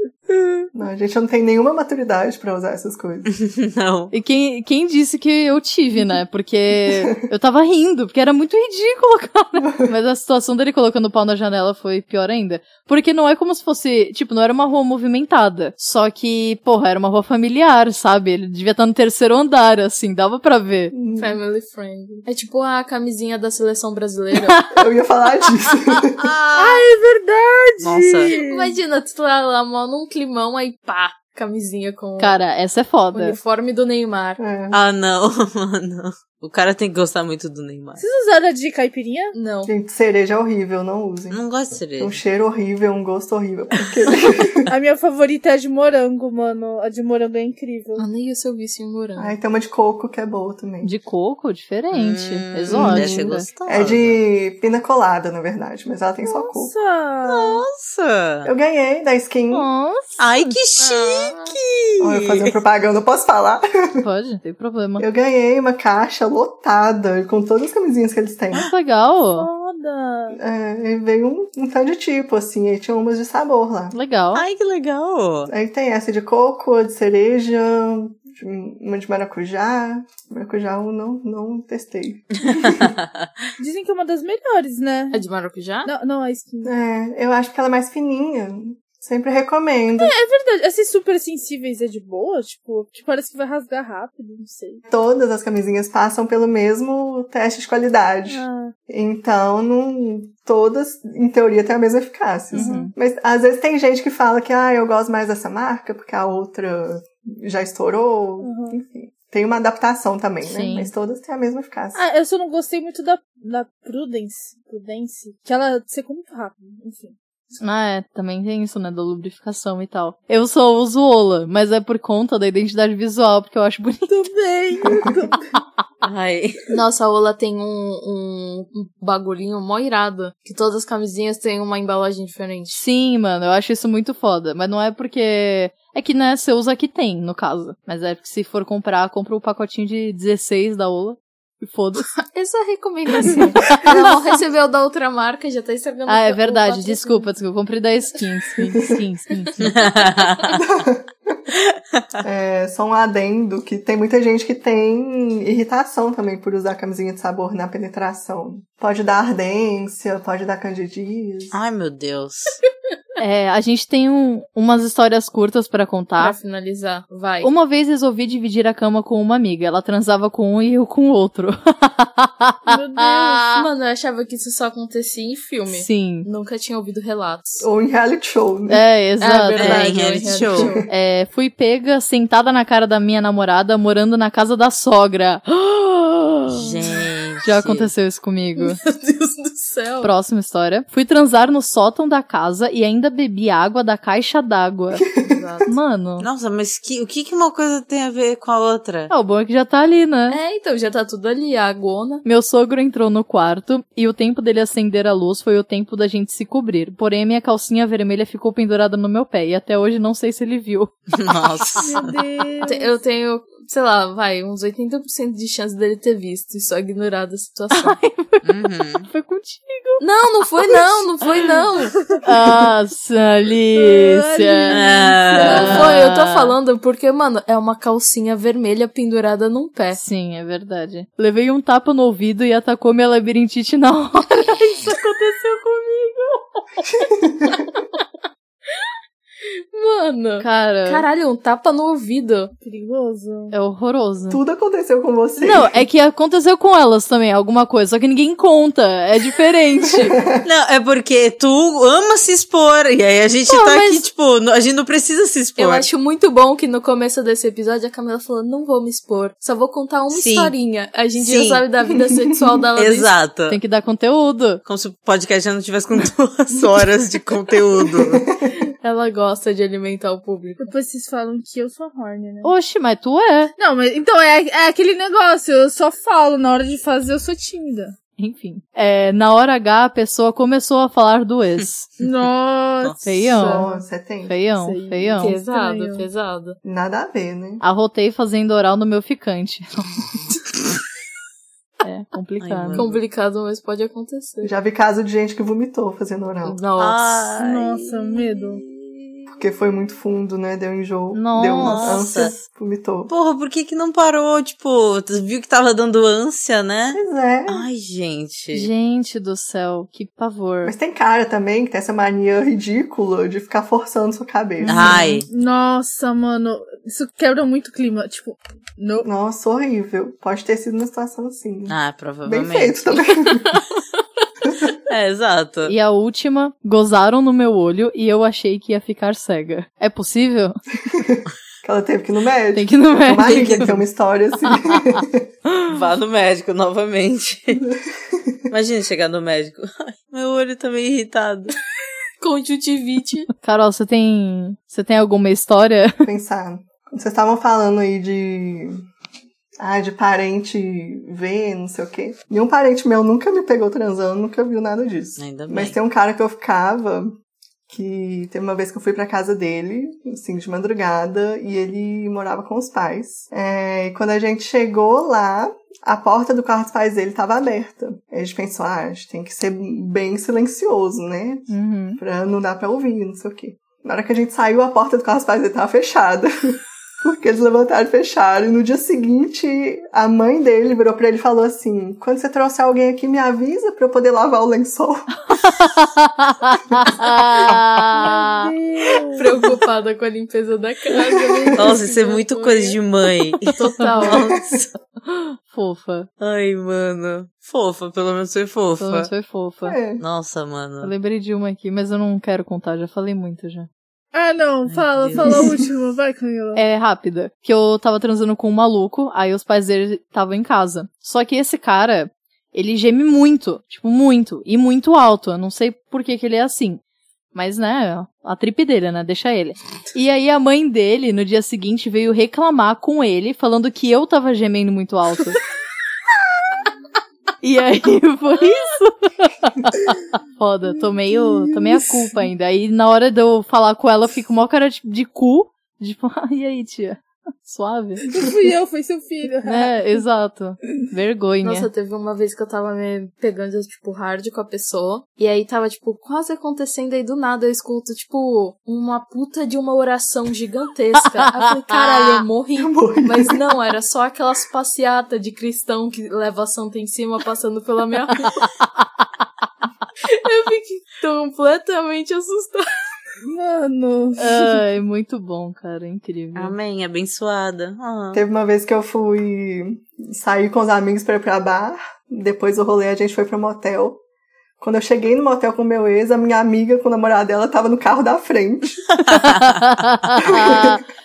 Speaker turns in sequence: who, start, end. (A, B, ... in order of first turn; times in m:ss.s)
0:00.7-0:03.3 A
0:03.3-0:04.1 B
0:04.1-0:20.9 C
0:20.9-0:21.4 A
0:21.2-0:24.6 D
0:24.7-0:26.3 A
0:26.5-0:28.7 E
0:26.6-0:26.9 D
0:27.8-0:28.3 B
0:28.4-0:32.4 D
0:32.2-0:33.4 C
0:33.1-0:34.4 D
0:34.4-0:34.8 A
0:34.7-0:38.0 B
0:38.0-0:39.3 E
0:39.3-0:39.7 D
0:39.6-0:41.4 A
0:41.3-0:42.2 B
0:42.0-0:44.7 A
0:44.7-0:48.0 E
0:48.0-0:49.3 D
0:49.2-0:50.9 A
0:50.8-0:53.5 C
0:51.9-0:54.2 B
0:52.7-0:56.7 A
0:56.2-0:57.6 E
0:57.2-0:58.5 B
0:58.4-0:59.7 A
0:59.5-1:00.6 C
1:00.2-1:02.5 B
1:00.8-1:01.6 D
1:02.0-1:04.0 A
1:04.0-1:05.0 C
1:05.0-1:08.7 A
1:08.5-1:09.5 C
1:09.4-1:10.4 E
1:10.3-1:13.9 A
1:13.9-1:14.4 C
1:14.3-1:15.5 B
1:15.5-1:22.9 A
1:22.5-1:23.3 B
1:23.6-1:25.2 E
1:25.1-1:25.9 D
1:25.8-1:26.7 E
1:26.6-1:30.1 A
1:30.0-1:34.8 E
1:34.9-1:52.0 A
1:38.3-1:38.7 E
1:42.5-1:42.9 C
1:42.6-1:42.9 E
1:48.4-1:48.8 E
1:50.4-1:50.9 C
1:51.9-1:57.2 E
1:57.6-2:04.1 C
2:04.0-2:05.5 E
2:06.0-2:06.6 B
2:06.7-2:12.8 D
2:12.7-2:22.1 C
2:22.2-2:27.3 D
2:23.7-2:24.1 C
2:23.8-2:24.1 A
2:26.1-2:29.7 C
2:29.6-2:30.6 B
2:30.5-2:31.4 A
2:31.7-2:32.0 B
2:32.2-2:41.6 A
2:41.5-2:42.6 B
2:43.2-2:46.3 C
2:46.2-2:47.5 D
2:47.4-2:53.6 C
2:52.7-2:53.6 E
2:53.5-2:57.6 D
2:55.7-2:56.3 C
2:57.6-2:58.8 A
2:58.7-3:00.2 C
2:59.2-3:00.8 D
2:59.6-3:00.7 B
3:00.5-3:00.9 A
3:00.8-3:06.7 C
3:06.5-3:07.9 B
3:07.4-3:08.8 C
3:08.6-3:10.1 D
3:10.0-3:15.0 C
3:15.0-3:15.2 A
3:15.2-3:15.7 D
3:15.7-3:16.3 C
3:16.2-3:19.1 B
3:19.1-3:20.4 C
3:20.3-3:22.2 D
3:22.2-3:31.1 C
3:31.1-3:32.1 B
3:31.8-3:32.9 E
3:32.6-3:38.0 D
3:37.7-3:38.4 C
3:38.4-3:39.1 B
3:39.0-3:40.0 C
3:40.0-3:42.0 D
3:42.2-3:46.0 C
3:43.7-3:45.8 E
3:44.7-3:46.5 B
3:45.4-3:50.0 D
3:49.9-3:54.8 C
3:54.7-3:56.8 D
3:57.1-3:57.6 A
3:57.5-3:57.8 D
3:59.7-4:02.5 D
4:00.4-4:01.0 C
4:02.6-4:03.5 E
4:03.5-4:04.4 C
4:04.3-4:05.8 A
4:05.4-4:10.2 C
4:09.8-4:10.4 A
4:10.4-4:15.9 B
4:13.5-4:14.0 D
4:15.6-4:23.1 D
4:20.1-4:20.5 B
4:21.2-4:21.6 B
4:22.3-4:22.6 A
4:22.8-4:23.6 B
4:23.5-4:24.6 C
4:24.6-4:28.2 B
4:28.0-4:28.5 A
4:28.8-4:30.7 D
4:30.6-4:32.5 E
4:32.4-4:33.5 C
4:33.6-4:37.9 E
4:38.2-4:41.9 C
4:42.0-4:43.7 E
4:42.8-4:43.2 B
4:43.0-4:43.7 C
4:43.4-4:44.3 A
4:44.3-4:45.4 C
4:44.5-4:46.0 E
4:45.2-4:46.6 D
4:46.6-4:47.6 A
4:47.6-4:49.9 C
4:51.8-4:52.8 C
4:52.4-4:53.0 B
4:52.7-4:54.5 D
4:54.4-4:56.6 A
4:56.4-4:57.3 D
4:56.8-4:59.0 B
4:57.3-4:58.6 E
4:59.4-5:03.1 A
5:01.1-5:02.0 C
5:01.6-5:02.3 B
5:03.1-5:08.7 B
5:06.9-5:07.6 A
5:08.5-5:10.7 C
5:10.6-5:15.0 A
5:14.6-5:15.2 C
5:14.7-5:15.3 B
5:15.3-5:19.1 E
5:19.0-5:23.6 A
5:21.7-5:23.0 B
5:24.4-5:24.7 A
5:24.9-5:25.7 B
5:25.6-5:30.5 C
5:30.8-5:35.3 A
5:32.5-5:33.8 C
5:33.2-5:33.8 B
5:34.7-5:35.0 C
5:35.7-5:37.6 B
5:37.5-5:38.4 A
5:38.5-5:41.5 B
5:42.2-5:43.3 D
5:43.4-5:46.0 C
5:46.0-5:48.8 A
5:49.6-5:57.2 A
5:55.2-5:55.7 B
5:57.7-6:25.1 A
6:11.5-6:12.0 C
6:25.3-6:28.5 C
6:27.9-6:29.3 E
6:29.1-6:32.8 D
6:30.9-6:31.8 A
6:31.6-6:33.6 B
6:33.5-6:34.4 D
6:34.0-6:34.6 A
6:35.1-6:36.1 C
6:36.2-6:39.1 B
6:38.8-6:39.8 C
6:39.6-6:40.0 A
6:40.0-6:40.9 B
6:40.8-6:43.7 C
6:44.1-6:46.6 E
6:44.7-6:45.6 B
6:46.5-6:56.8 C
6:57.3-7:05.4 C
7:07.4-7:18.0 C
7:11.4-7:11.8 E
7:18.1-7:19.8 E
7:19.4-7:21.7 C
7:21.4-7:38.4 D
7:31.6-7:32.2 C
7:32.6-7:33.4 A
7:40.0-7:42.6 D
7:43.2-7:44.6 E
7:44.2-7:46.5 C
7:46.3-7:48.2 B
7:48.1-7:54.0 A
7:54.6-7:58.8 A
7:59.1-7:59.5 B
7:59.1-8:00.8 C
8:00.2-8:00.8 A